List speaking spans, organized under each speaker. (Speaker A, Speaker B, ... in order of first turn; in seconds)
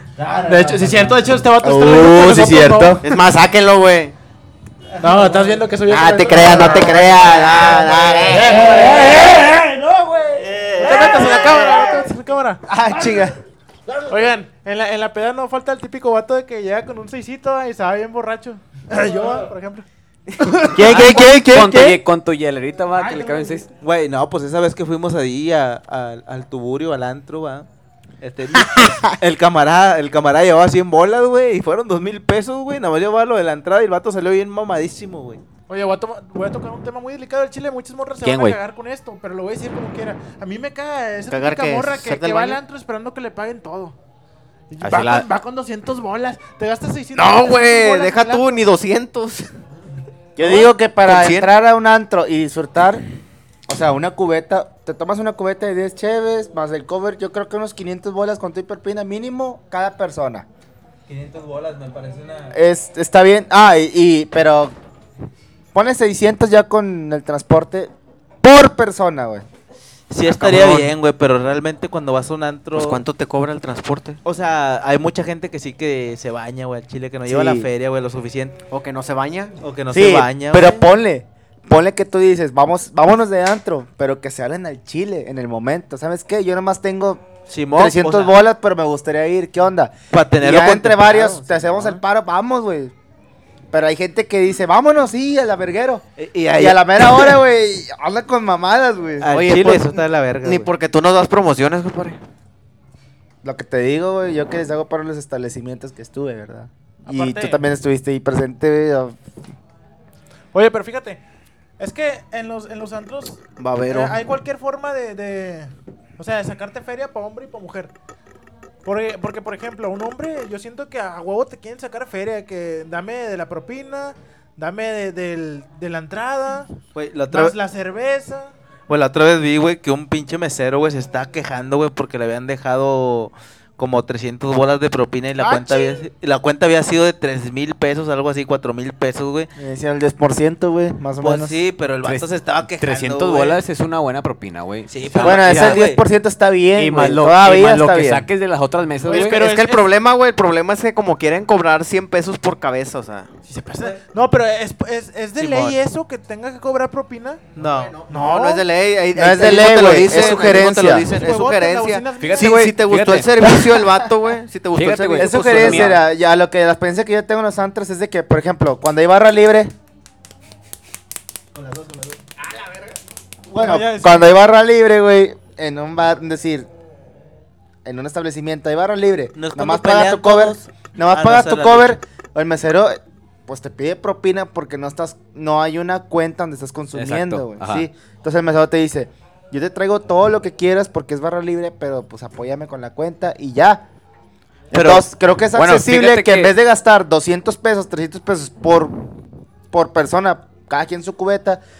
Speaker A: 0.2-1.2, 5.0-5.7, 8.3-11.8, 61.1-62.5, 171.6-172.2
Speaker B: 0.4-3.0, 5.0-7.1, 10.8-12.6, 14.1-19.9, 22.9-23.6, 35.7-44.0, 44.7-48.6, 107.1-107.6, 110.5-111.2, 111.8-117.9, 118.8-126.8, 127.3-128.5, 135.4-136.0, 149.1-149.9, 153.5-157.4, 158.1-158.7, 161.1-162.6, 173.5-174.3
Speaker C: 1.6-3.0, 6.4-9.4, 20.7-22.0, 50.4-53.0, 53.7-60.5, 62.5-64.8, 65.7-67.9, 68.4-69.5, 77.3-77.7, 79.9-92.9, 93.7-99.7, 103.4-109.2, 139.6-141.6, 145.2-148.3, 159.1-161.1, 165.2-169.7, 173.5-176.7, 177.8-193.8, 194.7-199.1, 199.7-201.6
Speaker D: 2.3-3.0, 12.7-13.3, 20.6-21.3, 23.8-27.7, 28.2-35.4, 70.1-73.0, 74.2-78.6, 79.6-80.8, 87.5-88.3, 90.1-92.0, 96.2-97.4, 99.2-100.7, 127.0-127.6, 128.9-139.5, 141.2-143.6, 144.9-146.0, 155.4-155.7, 157.6-158.0, 160.1-160.6, 179.3-182.0
Speaker E: 3.0-4.1, 5.9-8.7, 20.8-21.4, 41.3-42.6, 47.1-49.5, 50.4-51.5, 70.2-70.9, 72.8-74.2, 78.7-79.6, 99.3-99.9, 100.4-102.2, 113.6-114.2, 149.1-153.3, 157.6-165.9
Speaker F: 20.8-23.7, 38.2-38.6, 44.8-45.3, 142.0-145.8, 146.8-149.4, 162.2-163.3, 164.7-166.0, 186.9-187.9, 195.5-196.5